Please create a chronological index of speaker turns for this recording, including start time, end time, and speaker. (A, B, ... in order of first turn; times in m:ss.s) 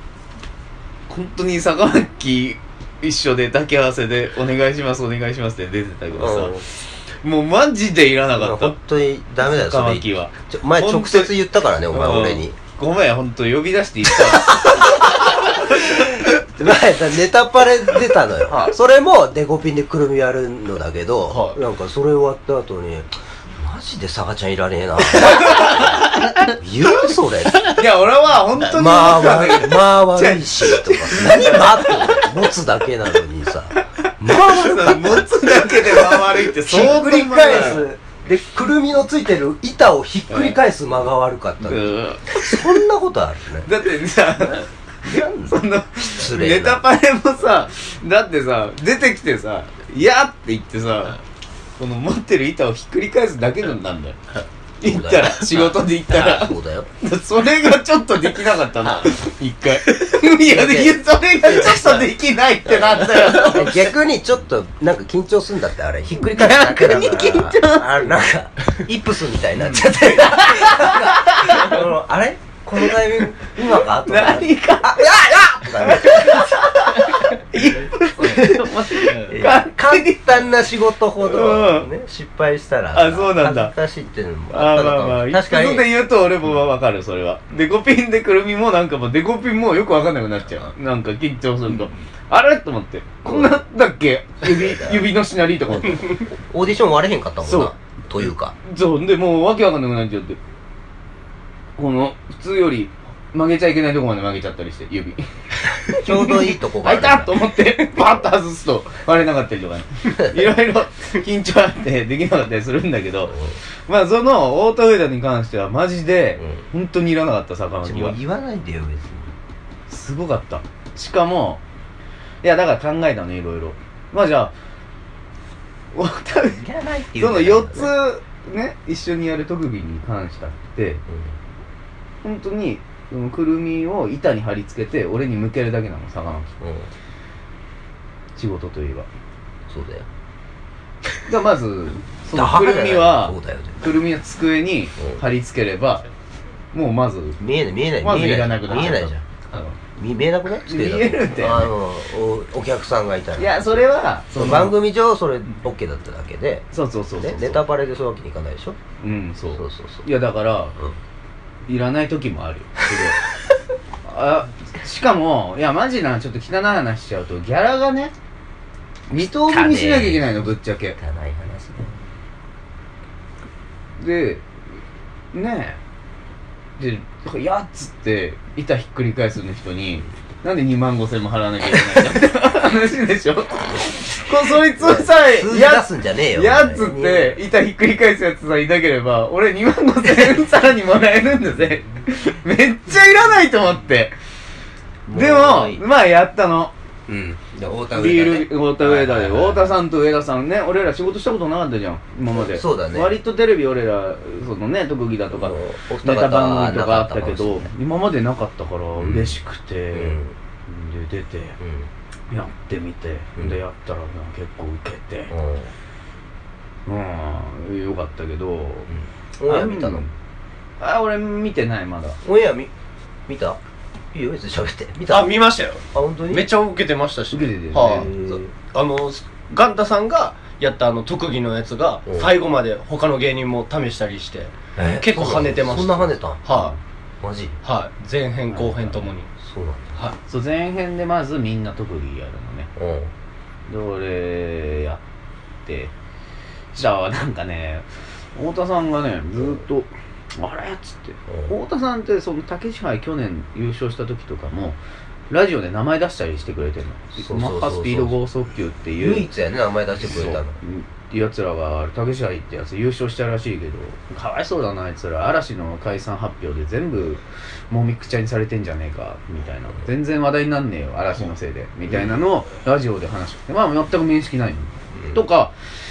0:01.1-0:08.8 A
0:06.1-0:06.7 B
0:08.3-0:12.6 B
0:09.4-0:16.1 A
0:14.2-0:27.8 B
0:18.5-0:18.8 A
0:25.2-0:26.6 A
0:27.7-0:32.3 A
0:28.6-0:43.7 B
0:33.8-0:37.9 A
0:40.3-0:40.6 A
0:41.6-0:42.8 A
0:43.6-0:51.2 A
0:44.4-0:45.6 B
0:46.2-0:46.8 B
0:51.8-0:54.2 A
0:54.8-1:04.0 A
0:54.8-0:56.9 B
1:00.5-1:02.1 B
1:02.7-1:16.6 B
1:06.1-1:08.1 A
1:09.6-1:11.8 A
1:12.8-1:20.4 A
1:18.2-1:25.9 B
1:21.2-1:21.9 A
1:22.9-1:23.7 A
1:24.5-1:36.2 A
1:33.2-1:33.6 B
1:34.4-1:35.1 B
1:35.8-1:38.6 B
1:37.4-1:37.8 A
1:38.6-1:40.4 A
1:41.8-1:58.2 A
1:45.9-1:47.4 B
1:53.3-1:53.6 B
1:56.4-1:56.6 B
1:57.8-1:59.3 B
1:59.9-2:01.6 A
2:02.4-2:04.5 A
2:05.9-2:06.6 A
2:06.6-2:07.9 B
2:07.2-2:11.0 A
2:11.1-2:11.3 B
2:12.2-2:16.6 A
2:16.6-2:16.9 B
2:18.4-2:19.1 A
2:19.7-2:20.1 B
2:21.3-2:26.0 A
2:22.3-2:23.8 B
2:25.0-2:25.2 B
2:26.7-2:27.4 A
2:27.4-2:29.3 B
2:28.0-2:29.8 A
2:29.9-2:33.7 B
2:30.6-2:31.7 A
2:33.4-2:34.8 A
2:34.4-2:36.7 B
2:36.7-2:37.7 A
2:37.2-2:38.8 B
2:39.0-2:40.8 A
2:39.6-2:40.1 B
2:41.7-2:43.2 A
2:44.0-2:48.1 A
2:49.1-2:51.0 A
2:49.2-2:51.9 B
2:54.0-2:54.4 A
2:55.3-2:55.8 A
2:56.8-3:14.2 A
3:04.6-3:07.4 B
3:15.1-3:15.8 B
3:15.1-3:16.7 A
3:17.1-3:19.8 B
3:17.9-3:31.6 A
3:22.3-3:23.2 B
3:25.3-3:27.7 B
3:29.0-3:29.4 B
3:29.9-3:30.4 B
3:31.6-3:31.9 B
3:32.3-3:35.3 A
3:35.3-3:35.7 B
3:36.9-3:38.9 A
3:38.9-3:40.1 B
3:39.5-3:40.1 A
3:40.8-3:42.2 A
3:42.2-3:42.7 B
3:43.3-3:43.6 B
3:44.1-3:45.4 B
3:45.1-3:56.8 C
3:45.9-3:46.5 B
3:47.3-3:48.1 A
3:47.8-3:48.5 B
3:52.1-3:52.3 B
3:54.8-3:56.4 B
3:57.2-3:57.6 B
3:57.6-3:59.3 C
3:58.5-3:59.1 A
3:59.4-4:00.0 B
4:00.3-4:02.7 A
4:02.8-4:03.1 B
4:03.7-4:05.0 A
4:05.7-4:05.9 A
4:06.7-4:14.8 A
4:11.3-4:11.5 B
4:15.3-4:19.3 A
4:17.2-4:18.2 B
4:19.0-4:20.6 B
4:20.0-4:35.5 A
4:31.9-4:32.2 B
4:34.9-4:35.2 B